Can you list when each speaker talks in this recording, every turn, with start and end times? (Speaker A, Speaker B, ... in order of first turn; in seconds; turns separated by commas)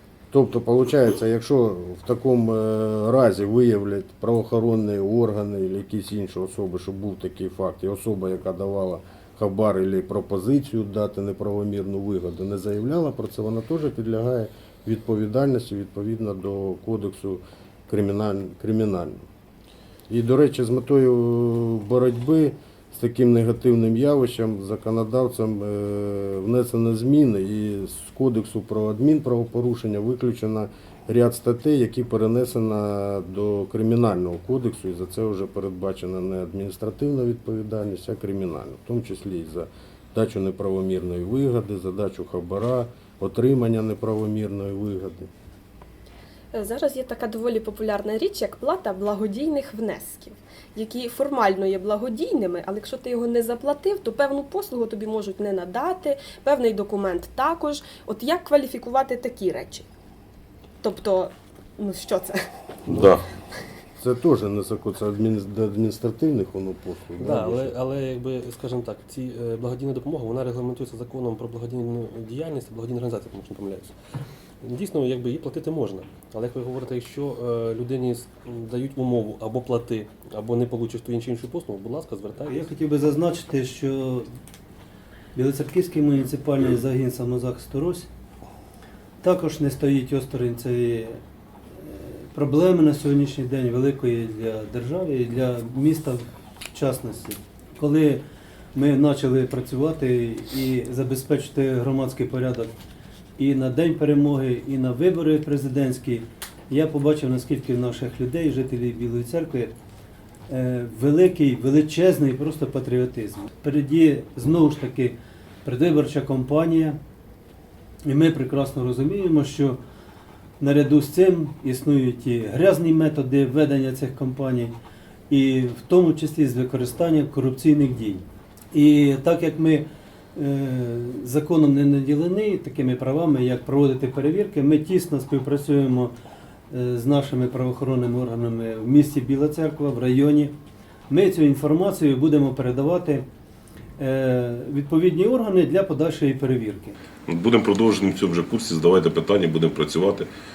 Speaker A: 0.3-19.2, Speaker A: 20.1-45.3, Speaker B: 46.5-59.9, Speaker B: 60.8-62.5, Speaker C: 62.9-63.2, Speaker A: 64.0-67.7, Speaker D: 67.2-73.9, Speaker D: 74.6-82.6, Speaker E: 82.5-84.3, Speaker E: 85.3-88.1, Speaker E: 89.2-91.2, Speaker E: 91.8-96.2, Speaker E: 96.7-98.2, Speaker E: 98.7-102.7, Speaker E: 103.4-109.7, Speaker E: 110.5-117.0, Speaker E: 118.0-119.8, Speaker E: 120.6-124.7, Speaker E: 125.3-128.2, Speaker E: 128.7-136.1, Speaker E: 136.7-140.5, Speaker E: 141.1-143.2, Speaker E: 144.0-146.9, Speaker C: 147.3-150.3